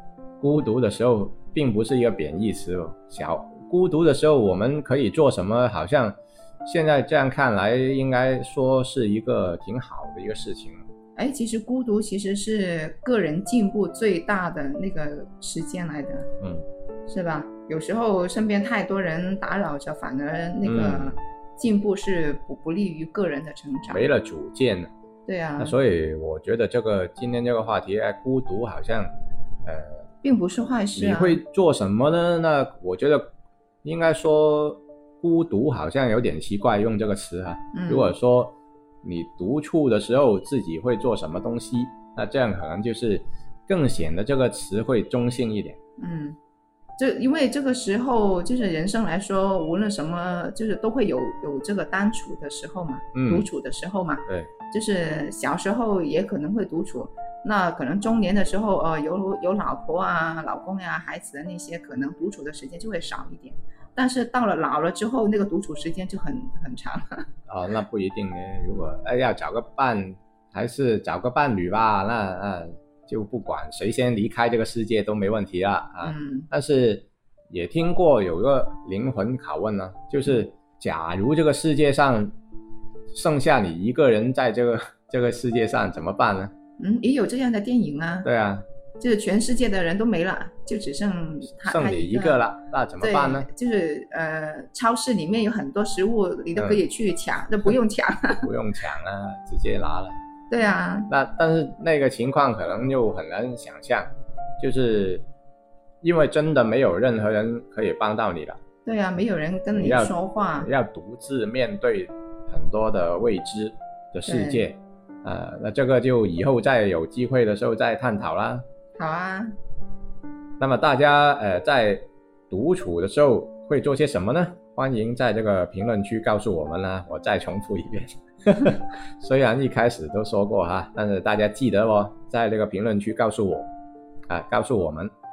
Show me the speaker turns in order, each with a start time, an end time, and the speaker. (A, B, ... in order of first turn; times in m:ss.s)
0:00.4-0:10.8 A
0:11.2-0:16.3 B
0:16.4-0:16.6 A
0:17.1-0:24.1 B
0:20.6-0:21.2 A
0:23.9-0:24.9 A
0:25.2-0:25.7 B
0:25.6-0:29.1 A
0:29.6-0:30.0 A
0:30.2-0:31.4 B
0:31.0-0:33.2 A
0:33.8-0:45.8 A
0:37.7-0:38.1 B
0:46.0-0:46.4 B
0:47.0-1:07.2 B
0:53.1-0:53.5 A
1:07.5-1:22.3 A
1:16.0-1:16.5 B
1:23.1-1:26.5 A
1:26.8-1:28.3 B
1:28.2-1:28.6 A
1:29.0-1:32.4 B
1:31.6-1:33.5 A
1:33.0-1:38.5 B
1:36.6-1:36.8 A
1:38.4-1:40.2 A
1:40.5-1:41.1 B
1:41.1-1:44.1 A
1:44.6-1:45.2 A
1:46.0-1:48.6 A
1:48.8-1:50.7 B
1:49.7-1:58.6 A
1:54.2-1:54.6 B
1:59.0-1:59.5 B
2:00.6-2:13.7 A
2:14.3-2:15.1 A